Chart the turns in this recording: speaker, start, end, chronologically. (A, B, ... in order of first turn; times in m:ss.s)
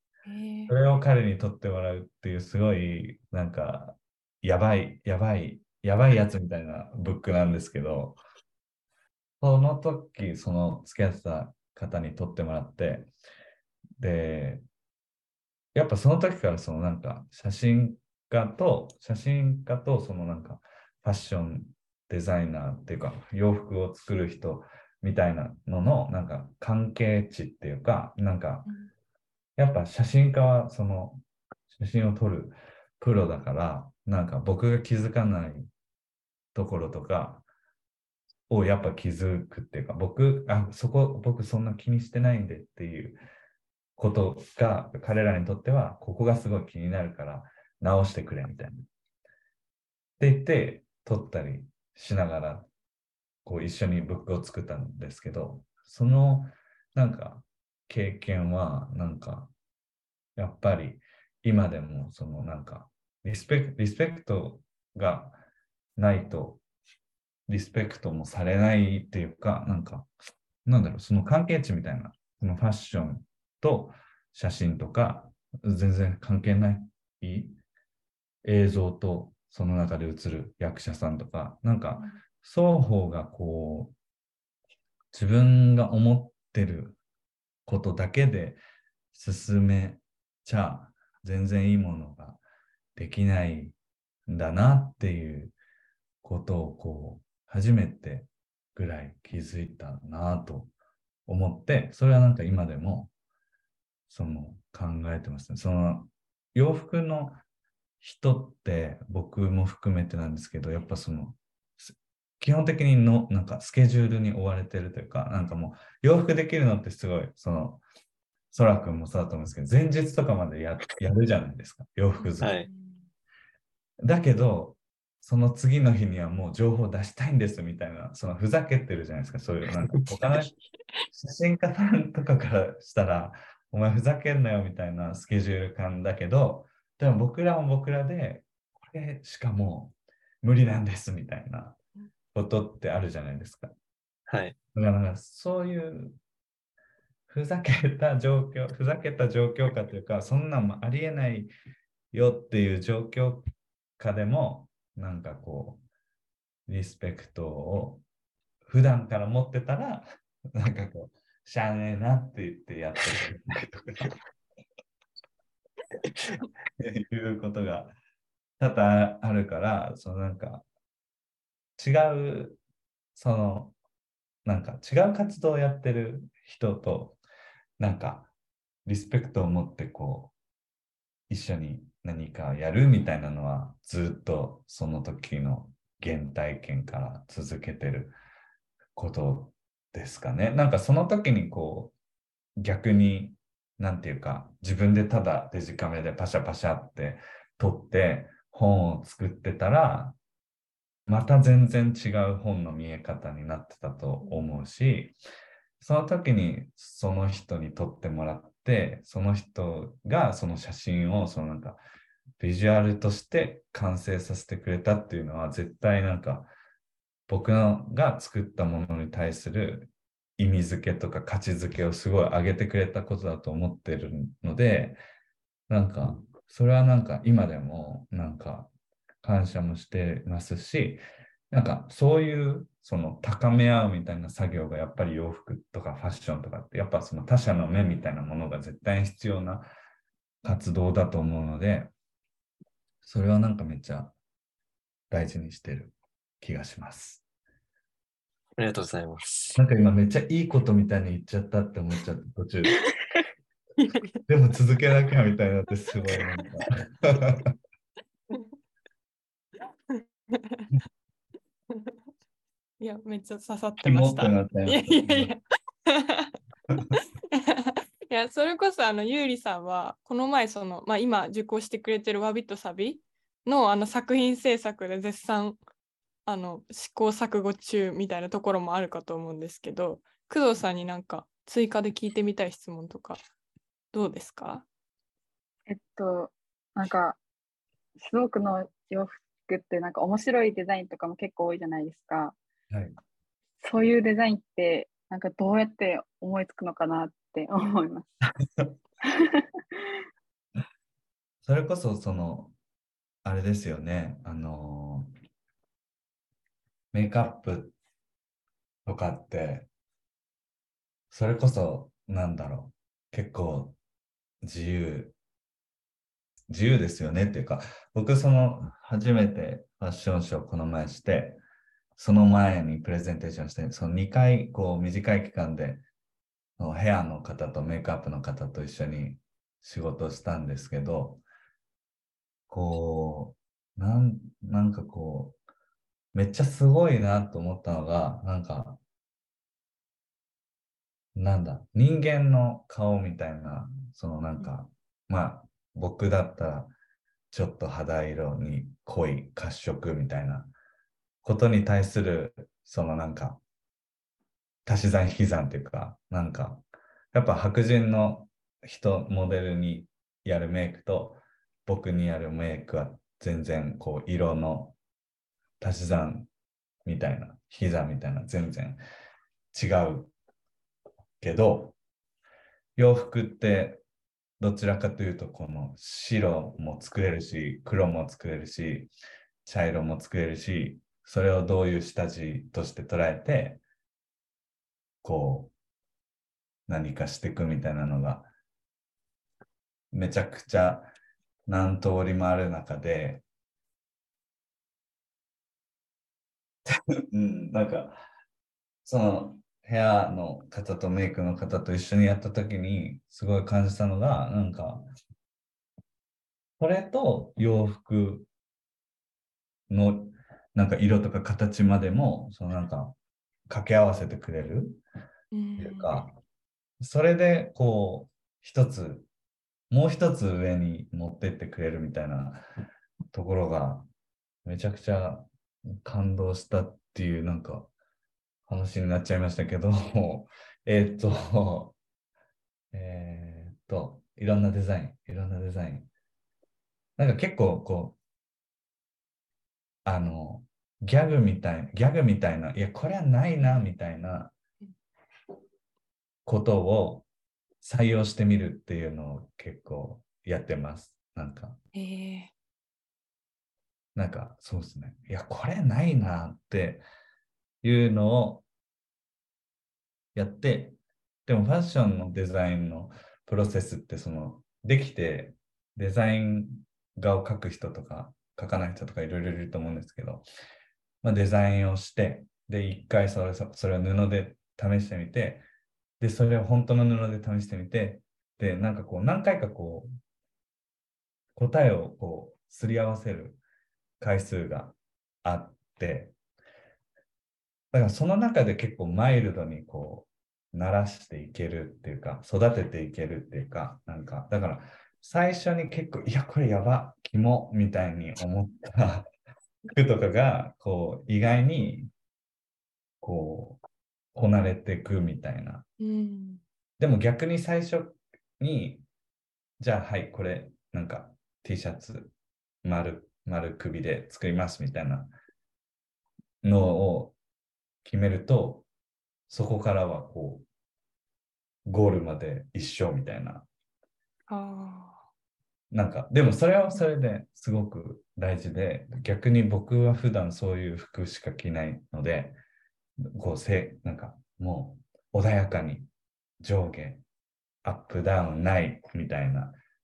0:00.3-0:00.7 A
0:00.7-0:08.2 B
0:09.4-0:13.1 B
0:14.0-0:14.6 B
0:15.7-0:28.7 B
0:29.6-0:35.7 B
0:36.6-0:37.4 B
0:38.5-0:43.2 B
0:44.0-0:48.9 B
0:50.2-0:52.7 B
0:53.4-0:59.5 B
1:00.4-1:05.4 B
1:06.0-1:06.6 B
1:07.5-1:10.1 B
1:10.6-1:17.6 B
1:18.4-1:23.9 B
1:25.1-1:27.0 B
1:27.6-1:28.6 B
1:29.1-1:32.4 B
1:33.0-1:33.8 B
1:34.3-1:35.6 B
1:36.2-1:40.7 B
1:41.3-1:43.1 B
1:44.1-1:47.4 B
1:48.0-1:57.8 B
1:58.5-2:02.6 B
2:02.2-2:03.1 A
2:02.4-2:02.7 C
2:04.0-2:10.5 B
2:10.1-2:10.5 C
2:11.1-2:21.8 B
2:22.3-2:23.7 B
2:24.3-2:24.6 C
2:24.7-2:26.2 B
2:27.3-2:31.5 B
2:32.1-2:35.8 B
2:36.7-2:38.0 B
2:38.6-2:44.1 B
2:46.8-2:47.9 B
2:48.6-2:50.6 B
2:51.8-2:52.6 B
2:53.2-2:53.8 B
2:54.4-2:57.2 B
2:57.8-2:58.3 B
2:58.9-3:00.3 B
3:01.3-3:08.2 B
3:09.0-3:11.9 B
3:12.6-3:20.2 B
3:21.1-3:25.1 B
3:25.8-3:31.8 B
3:32.4-3:36.5 B
3:37.3-3:45.0 B
3:45.7-3:48.7 B
3:49.2-3:59.7 B
4:00.4-4:01.9 B
4:03.0-4:04.1 B
4:05.1-4:07.2 B
4:08.6-4:09.6 C
4:09.6-4:12.8 B
4:13.8-4:14.2 A
4:14.3-4:17.5 B
4:19.9-4:20.7 A
4:22.8-4:26.4 A
4:23.8-4:25.3 B
4:26.9-4:35.6 A
4:36.3-4:43.2 A
4:43.9-4:44.6 A
4:45.7-4:47.2 D
4:48.0-4:52.4 D
4:52.7-4:53.0 B
4:53.6-4:58.1 D
4:59.0-4:59.9 D
5:01.4-5:02.6 B
5:03.2-5:05.1 B
5:06.9-5:07.8 B
5:08.9-5:09.7 B
5:11.1-5:13.8 B
5:14.4-5:15.1 B
5:16.5-5:21.4 B
5:22.0-5:25.8 B
5:26.6-5:31.2 B
5:32.5-5:35.4 B
5:36.1-5:38.8 B
5:41.1-5:46.7 B
5:47.3-5:50.5 B
5:51.2-5:53.4 B
5:54.6-6:04.8 B
6:05.6-6:06.3 B
6:06.8-6:08.8 B
6:09.5-6:10.1 B
6:11.2-6:11.8 B
6:12.8-6:13.8 B
6:14.4-6:18.9 B
6:19.4-6:23.6 B
6:25.0-6:25.5 B
6:26.7-6:28.3 B
6:29.9-6:30.9 B
6:31.5-6:33.2 B
6:36.7-6:38.0 B
6:38.8-6:44.9 B
6:46.6-6:48.3 B
6:49.7-6:52.9 B
6:53.5-6:54.8 B
6:55.3-6:56.0 A
6:55.6-6:56.2 B
6:56.8-6:59.1 B
6:59.7-7:02.4 B
7:03.1-7:03.9 B
7:04.4-7:07.7 B
7:08.5-7:11.8 B
7:12.7-7:15.9 B
7:17.0-7:18.0 B
7:19.8-7:24.3 B
7:26.3-7:27.1 B
7:27.6-7:31.6 B
7:31.7-7:32.3 A
7:33.9-7:36.8 B
7:37.6-7:38.4 B
7:40.1-7:50.2 B
7:51.0-7:55.4 B
7:56.0-7:59.9 B
8:01.4-8:03.4 B
8:04.0-8:06.1 B
8:07.7-8:19.1 B
8:19.7-8:21.9 B
8:23.0-8:23.6 B
8:24.1-8:25.6 B
8:25.8-8:26.4 A
8:26.8-8:28.8 B
8:29.6-8:35.1 B
8:36.4-8:37.1 B
8:37.8-8:38.7 B
8:39.3-8:40.4 B
8:41.6-8:43.4 B
8:44.3-8:45.0 A
8:45.7-8:52.4 B
8:53.1-8:55.9 B
8:56.4-8:57.0 B
8:57.6-8:59.6 B